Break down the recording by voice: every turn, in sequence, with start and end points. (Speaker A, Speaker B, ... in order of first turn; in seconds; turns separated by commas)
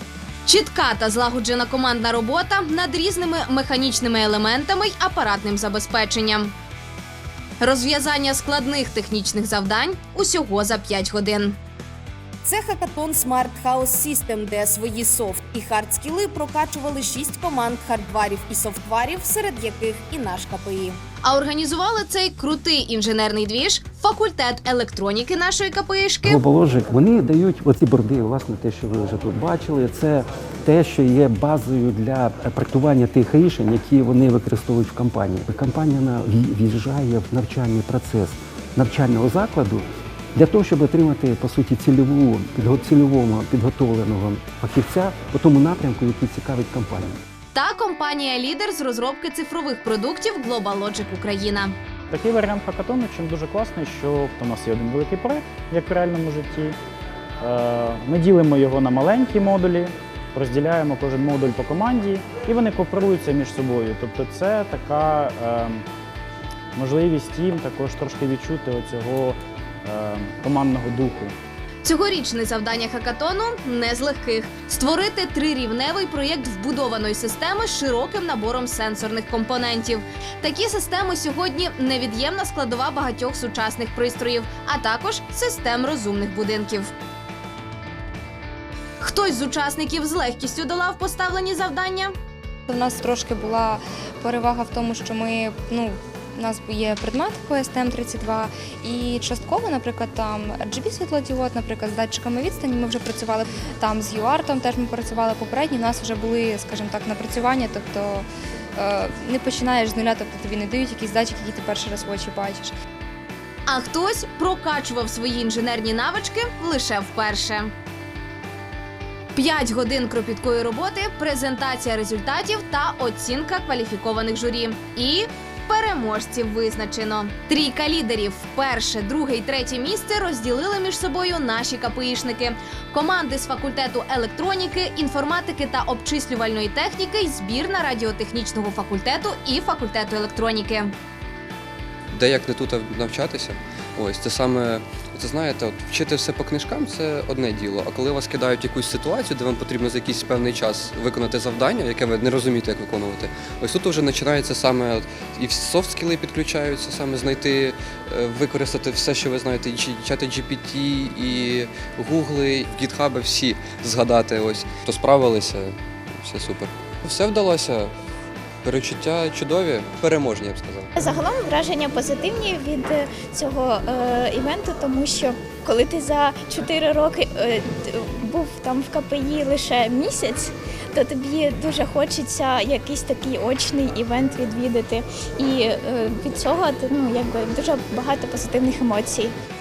Speaker A: 0.5-6.5, Speaker A: 7.6-11.6, Speaker B: 14.3-15.7, Speaker B: 18.1-18.6, Speaker A: 21.2-26.4, Speaker C: 26.2-39.8, Speaker C: 40.4-47.2, Speaker A: 47.5-51.7, Speaker D: 52.1-56.8, Speaker D: 57.4-65.8, Speaker D: 66.8-71.3, Speaker A: 71.8-86.9, Speaker A: 89.0-92.1, Speaker E: 92.7-108.2, Speaker E: 108.8-112.7, Speaker A: 113.7-117.7, Speaker A: 119.3-140.9, Speaker F: 142.1-167.9, Speaker F: 168.6-170.9, Speaker G: 170.9-189.3